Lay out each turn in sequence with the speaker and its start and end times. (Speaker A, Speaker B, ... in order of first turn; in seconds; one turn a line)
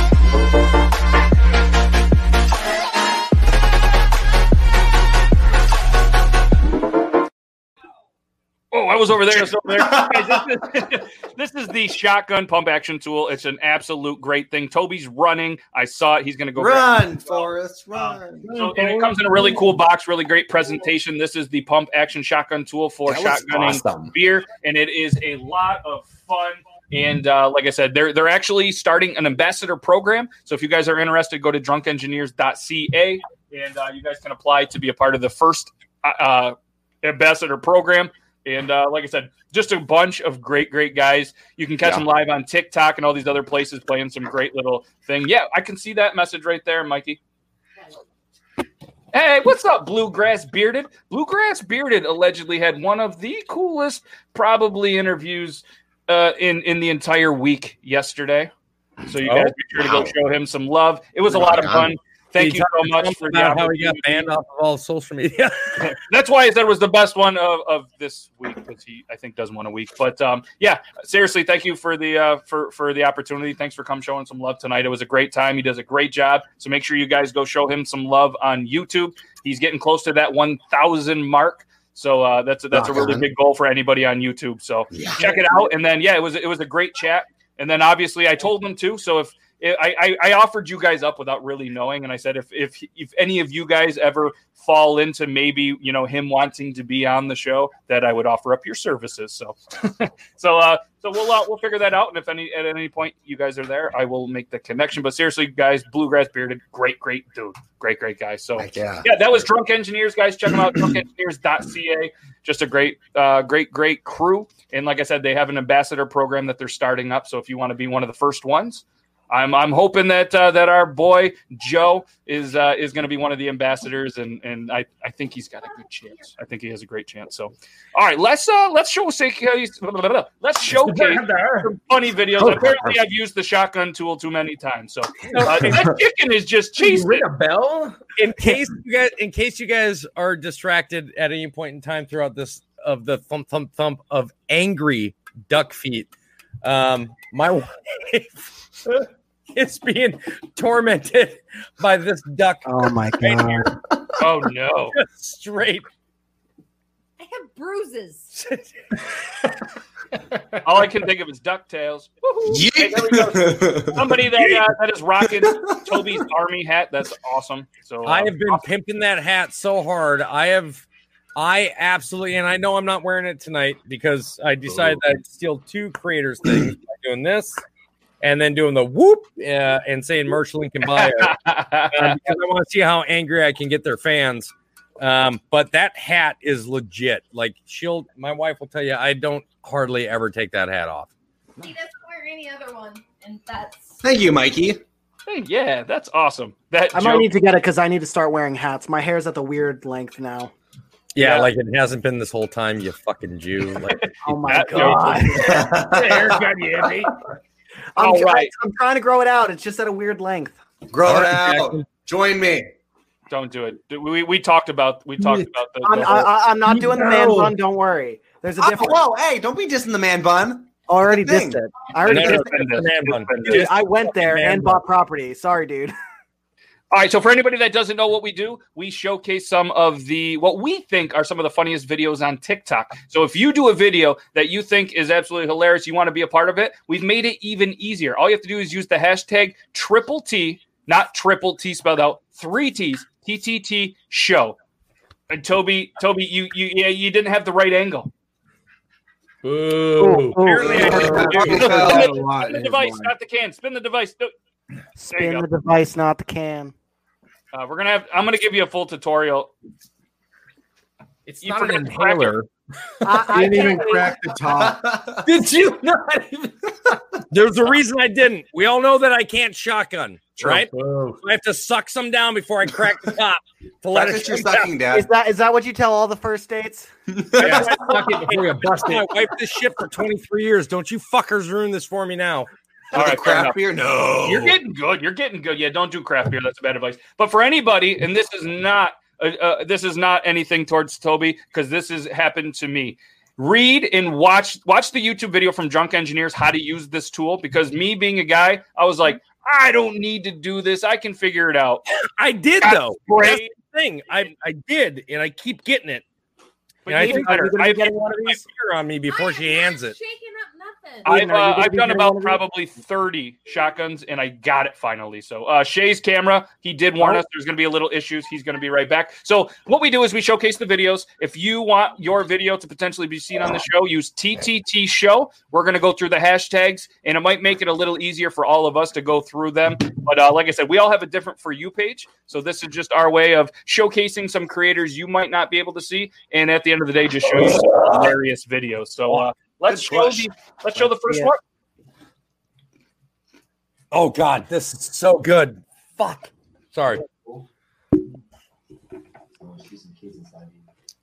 Speaker A: 8.7-17.1
Speaker B: 9.7-10.4
Speaker B: 16.6-18.4
Speaker A: 18.1-47.2
Speaker C: 18.4-19.6
Speaker B: 23.1-24.1
Speaker A: 49.1-58.5
Speaker A: 59.0-64.3
Speaker D: 59.2-59.6
Speaker D: 61.4-66.0
Speaker A: 65.8-137.3
Speaker B: 82.7-83.3
Speaker B: 84.9-85.7
Speaker B: 108.6-109.2
Speaker B: 110.7-110.9
Speaker C: 130.7-131.7
Speaker C: 135.4-135.7
Speaker C: 136.8-138.0
Speaker D: 138.2-146.1
Speaker D: 146.6-153.7
Speaker E: 152.7-153.7
Speaker A: 154.2-155.0
Speaker D: 154.9-155.9
Speaker F: 157.2-158.3
Speaker D: 158.3-158.7
Speaker A: 160.6-168.6
Speaker B: 162.5-164.6
Speaker B: 165.4-166.1
Speaker D: 168.1-170.8
Speaker D: 171.4-177.6
Speaker D: 178.2-191.1
Speaker A: 180.9-182.2
Speaker F: 191.6-194.0
Speaker B: 194.0-194.8
Speaker A: 195.3-197.3
Speaker E: 196.9-200.5
Speaker D: 201.2-204.1
Speaker A: 201.2-201.5
Speaker A: 203.9-205.5
Speaker E: 204.2-205.7
Speaker D: 204.7-205.2
Speaker B: 205.4-206.4
Speaker C: 205.9-207.1
Speaker E: 207.9-210.6
Speaker A: 208.0-208.5
Speaker B: 210.9-212.7
Speaker D: 211.0-211.9
Speaker A: 213.3-216.3
Speaker E: 215.8-219.0
Speaker B: 218.6-221.6
Speaker E: 220.9-222.6
Speaker A: 222.0-223.7
Speaker D: 222.0-224.8
Speaker E: 223.4-225.9
Speaker A: 226.9-244.6
Speaker A: 245.3-248.1
Speaker C: 249.4-251.0
Speaker E: 250.0-251.5
Speaker A: 250.5-254.3
Speaker B: 250.6-252.3
Speaker G: 250.8-253.1
Speaker E: 255.0-256.7
Speaker A: 255.1-255.5
Speaker A: 257.5-259.5
Speaker D: 261.3-262.5
Speaker A: 261.4-262.4
Speaker E: 263.0-264.2
Speaker G: 263.3-264.8
Speaker B: 264.6-265.2
Speaker C: 265.3-266.5
Speaker D: 267.3-274.7
Speaker C: 270.4-271.2
Speaker B: 273.9-275.1
Speaker E: 274.9-276.9
Speaker B: 277.1-277.8
Speaker D: 277.4-282.5
Speaker C: 277.4-279.1
Speaker B: 282.9-284.6
Speaker A: 282.9-283.6
Speaker A: 284.2-301.9
Speaker D: 302.2-306.0
Speaker A: 302.6-303.5
Speaker A: 306.9-308.1
Speaker D: 306.9-310.0
Speaker E: 307.0-308.4
Speaker F: 309.1-311.1
Speaker E: 311.1-312.4
Speaker A: 311.1-341.4
Speaker B: 339.7-340.3
Speaker E: 341.1-341.3
Speaker D: 343.9-347.1
Speaker F: 349.7-350.5